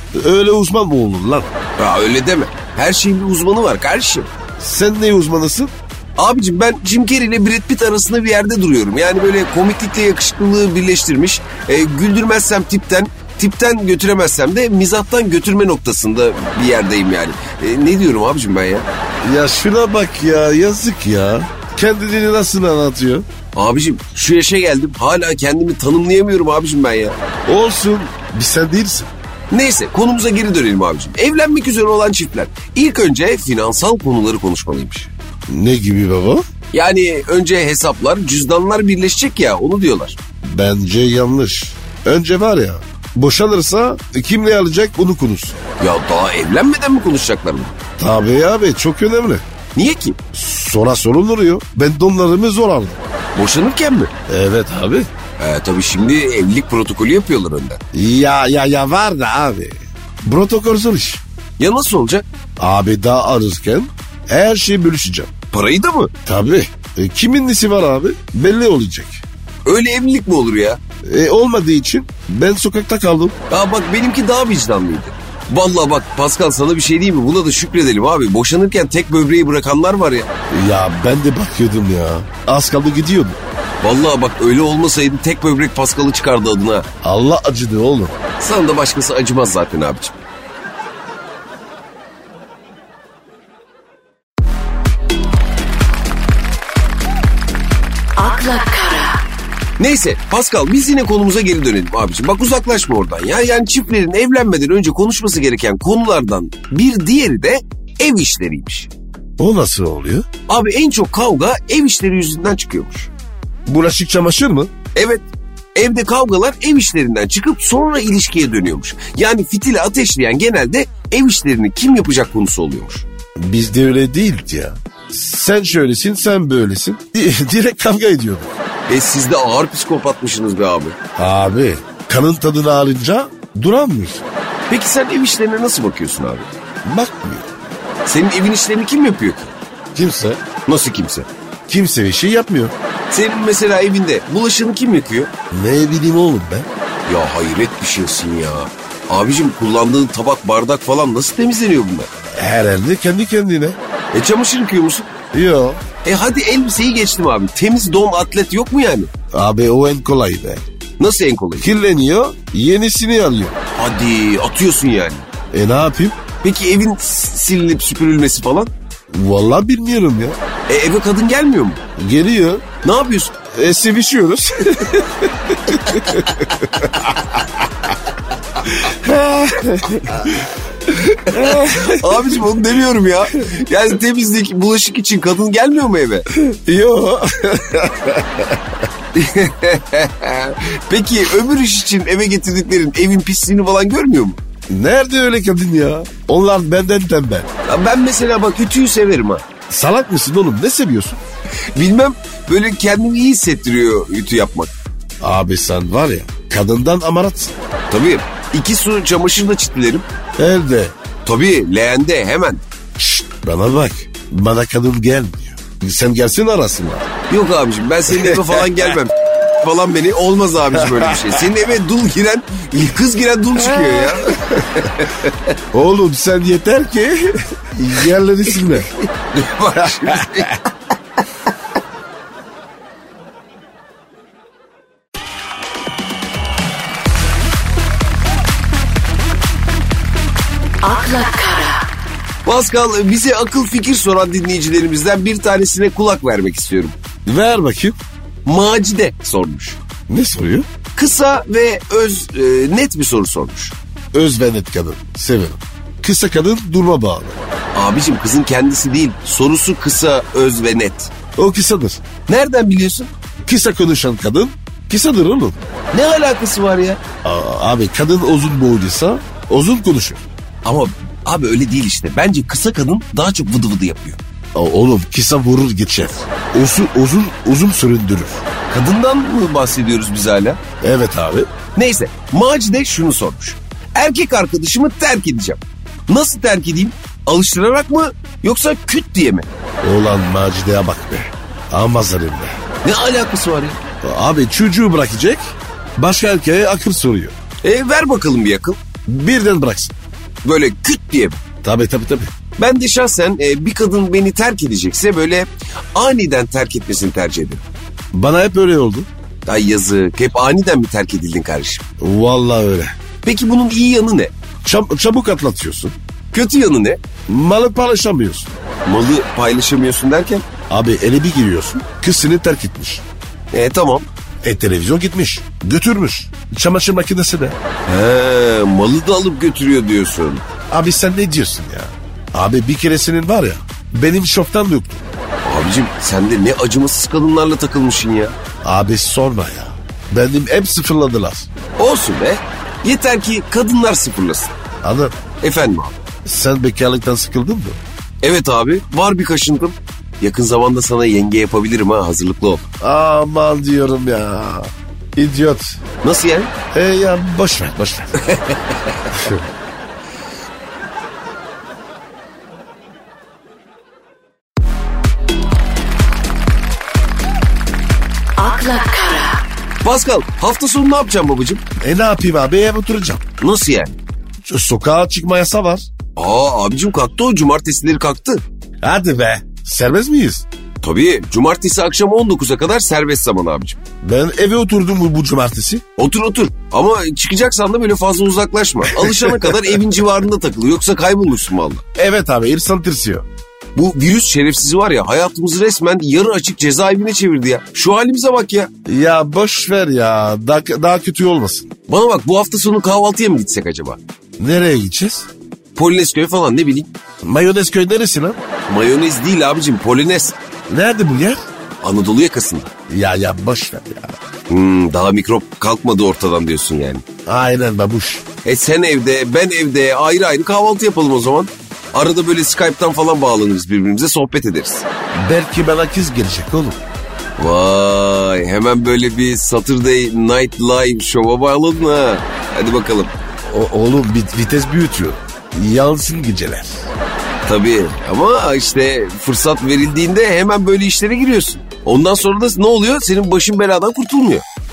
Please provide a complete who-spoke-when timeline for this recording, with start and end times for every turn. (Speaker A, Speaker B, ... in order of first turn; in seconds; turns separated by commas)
Speaker A: 0.1-1.5, Speaker B: 1.8-4.3, Speaker A: 4.6-5.7, Speaker B: 6.2-18.9, Speaker A: 19.2-23.3, Speaker B: 23.5-27.2, Speaker A: 27.5-29.1, Speaker B: 29.5-35.1, Speaker A: 35.5-36.4, Speaker B: 36.7-40.2, Speaker A: 40.4-45.6, Speaker B: 45.8-47.8, Speaker A: 48.0-49.4, Speaker B: 49.8-50.2, Speaker A: 50.3-53.0, Speaker B: 53.4-54.1, Speaker A: 54.3-55.1, Speaker B: 55.4-57.8, Speaker A: 57.9-61.2, Speaker B: 61.6-62.2, Speaker A: 62.6-65.3, Speaker B: 65.5-66.1, Speaker A: 66.3-69.2, Speaker B: 69.7-70.8, Speaker A: 71.0-73.4, Speaker B: 73.5-80.3, Speaker A: 80.5-83.4, Speaker B: 83.8-86.9, Speaker A: 87.0-88.2, Speaker B: 88.4-90.2, Speaker C: 98.2-99.2, Speaker B: 99.8-108.9, Speaker A: 109.4-110.2, Speaker B: 110.5-113.1, Speaker A: 113.7-114.7, Speaker B: 115.0-123.0, Speaker A: 123.4-128.6, Speaker B: 128.9-131.0, Speaker A: 131.2-134.2, Speaker B: 134.7-136.5, Speaker A: 136.8-137.5, Speaker B: 138.1-139.5, Speaker A: 139.9-140.4, Speaker B: 140.6-141.3, Speaker A: 141.7-142.7, Speaker B: 143.1-145.3, Speaker A: 145.5-146.7, Speaker B: 147.1-152.1, Speaker A: 152.4-153.8, Speaker B: 154.1-155.1, Speaker A: 155.3-155.8, Speaker B: 156.0-159.1, Speaker A: 159.3-160.7, Speaker B: 161.0-161.7, Speaker A: 161.6-163.6, Speaker B: 163.8-165.3, Speaker A: 165.5-166.2, Speaker B: 166.4-168.7, Speaker A: 169.1-170.4, Speaker B: 170.7-171.8, Speaker A: 172.0-172.7, Speaker B: 172.8-173.3, Speaker A: 173.5-177.5, Speaker A: 178.6-182.5, Speaker B: 181.3-186.3, Speaker A: 186.3-188.6, Speaker B: 189.1-194.4, Speaker A: 194.7-197.5, Speaker B: 197.7-199.4, Speaker A: 199.7-201.2, Speaker B: 201.7-204.7, Speaker A: 205.2-207.6, Speaker B: 207.9-210.1, Speaker A: 210.4-210.9, Speaker B: 211.2-212.6, Speaker A: 213.0-217.1, Speaker B: 217.3-225.5, Speaker A: 218.1-218.8, Speaker A: 220.7-221.5, Speaker A: 225.7-228.9, Speaker B: 229.2-230.6, Speaker A: 229.7-230.6, Speaker C: 240.8-241.8, Speaker B: 242.4-246.9, Speaker A: 247.3-248.0, Speaker B: 248.5-249.8, Speaker A: 250.1-250.7, Speaker B: 250.9-253.8, Speaker A: 254.1-257.4, Speaker B: 257.8-261.1, Speaker A: 261.4-262.0, Speaker B: 262.3-263.1, Speaker A: 263.4-265.6, Speaker B: 265.9-267.0, Speaker A: 267.2-270.3, Speaker B: 270.6-274.2, Speaker A: 274.6-278.4, Speaker B: 278.7-280.6, Speaker A: 280.8-281.5, Speaker B: 281.8-289.5, Speaker A: 289.8-292.6, Speaker B: 292.8-293.8, Speaker A: 294.0-297.3, Speaker B: 297.6-298.8, Speaker A: 299.1-300.0, Speaker B: 300.4-301.4, Speaker A: 301.6-302.3, Speaker B: 302.6-307.6, Speaker A: 308.1-309.1, Speaker B: 309.5-311.8, Speaker A: 312.0-312.9, Speaker B: 313.2-314.3, Speaker A: 314.6-315.9, Speaker B: 316.3-317.0, Speaker A: 317.3-318.5, Speaker B: 318.9-320.5, Speaker A: 320.7-323.0, Speaker B: 323.5-324.1, Speaker A: 324.4-327.6, Speaker B: 327.9-330.4, Speaker A: 330.7-335.1, Speaker B: 335.4-338.4, Speaker A: 338.6-341.5, Speaker B: 341.8-344.5, Speaker A: 344.8-345.2, Speaker B: 345.4-346.0, Speaker A: 346.3-347.8, Speaker B: 348.2-352.6, Speaker A: 352.8-355.8, Speaker B: 356.0-356.5, Speaker A: 356.7-358.2, Speaker B: 358.2-358.9, Speaker A: 359.1-359.5, Speaker C: 368.4-369.4, Speaker B: 369.8-371.6, Speaker A: 371.8-373.2, Speaker B: 373.4-374.0, Speaker A: 374.5-375.9, Speaker B: 376.2-378.4, Speaker A: 378.8-380.4, Speaker B: 380.8-383.8, Speaker A: 384.0-385.8, Speaker B: 386.0-391.8, Speaker A: 389.0-389.7, Speaker A: 392.0-393.2, Speaker B: 393.8-398.7, Speaker A: 398.9-401.7, Speaker B: 401.9-404.0, Speaker A: 404.4-405.3, Speaker B: 405.8-406.9, Speaker A: 407.2-408.4, Speaker B: 408.7-410.4, Speaker A: 410.7-411.4, Speaker B: 411.8-412.7, Speaker A: 412.9-414.2, Speaker B: 414.5-417.0, Speaker A: 417.3-418.2, Speaker B: 418.4-424.9, Speaker A: 425.1-426.8, Speaker B: 427.4-433.1, Speaker A: 433.4-436.9, Speaker B: 437.4-444.4